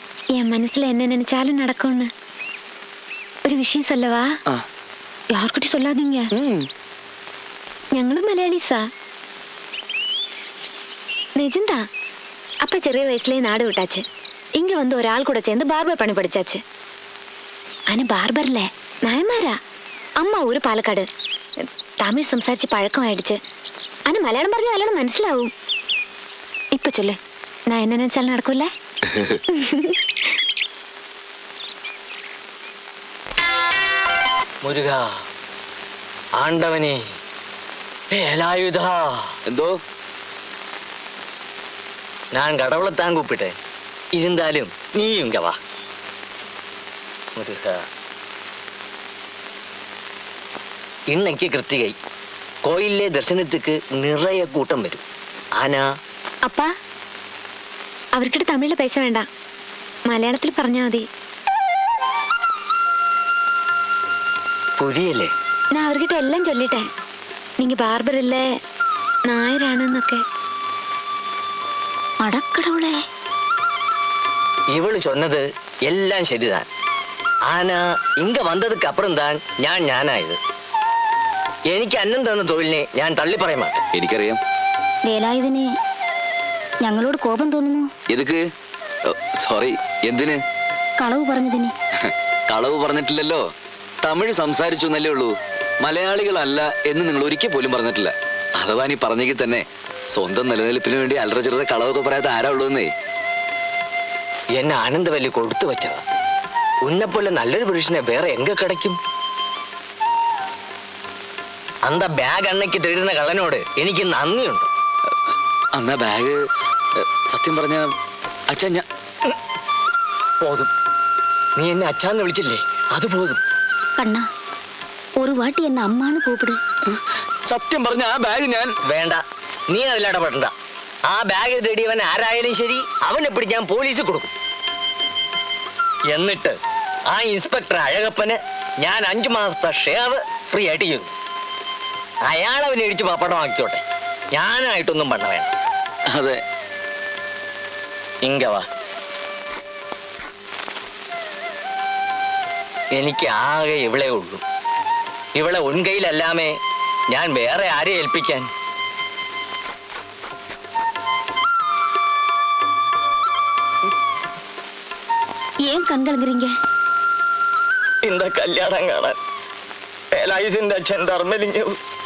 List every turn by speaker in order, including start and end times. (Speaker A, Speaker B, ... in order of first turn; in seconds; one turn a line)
Speaker A: 0.3-2.1
Speaker A: 3.5-4.3
Speaker A: 5.3-6.3
Speaker B: 6.3-6.7
Speaker A: 8.0-8.8
Speaker A: 11.4-11.8
Speaker A: 12.6-14.0
Speaker A: 14.6-16.6
Speaker A: 17.9-19.5
Speaker A: 20.2-21.1
Speaker A: 22.0-23.4
Speaker A: 24.1-25.5
Speaker A: 26.7-27.2
Speaker A: 27.7-28.7
Speaker B: 29.1-29.4
Speaker A: 29.5-30.0
Speaker C: 34.6-35.2
Speaker C: 36.4-37.0
Speaker C: 38.1-39.3
Speaker B: 39.5-39.7
Speaker C: 42.3-43.5
Speaker C: 44.1-45.6
Speaker C: 47.4-47.8
Speaker C: 51.1-51.9
Speaker C: 52.6-55.0
Speaker C: 55.5-55.9
Speaker A: 58.1-59.2
Speaker A: 60.1-61.0
Speaker C: 64.8-65.3
Speaker A: 65.8-66.8
Speaker A: 67.6-68.4
Speaker A: 69.3-70.2
Speaker D: 72.2-73.0
Speaker C: 74.7-76.6
Speaker C: 77.5-80.4
Speaker C: 81.7-83.8
Speaker B: 83.9-84.4
Speaker D: 85.0-85.7
Speaker D: 86.8-87.9
Speaker B: 88.1-88.4
Speaker B: 89.1-90.4
Speaker D: 91.0-91.7
Speaker B: 92.0-93.4
Speaker B: 94.0-102.9
Speaker C: 104.5-106.0
Speaker C: 106.8-109.0
Speaker C: 111.8-114.7
Speaker B: 115.8-116.4
Speaker B: 117.0-117.9
Speaker B: 118.5-118.8
Speaker C: 120.4-120.7
Speaker C: 121.6-123.4
Speaker D: 124.0-124.2
Speaker D: 125.2-126.6
Speaker B: 126.9-128.7
Speaker C: 128.9-130.5
Speaker C: 131.1-134.3
Speaker C: 136.1-136.6
Speaker C: 137.1-141.1
Speaker C: 142.2-143.8
Speaker C: 144.3-145.5
Speaker B: 146.1-146.4
Speaker C: 148.2-148.6
Speaker C: 152.9-154.4
Speaker C: 155.3-156.5
Speaker C: 157.1-158.5
Speaker D: 165.6-166.5
Speaker C: 168.0-169.2
Speaker C: 170.1-171.8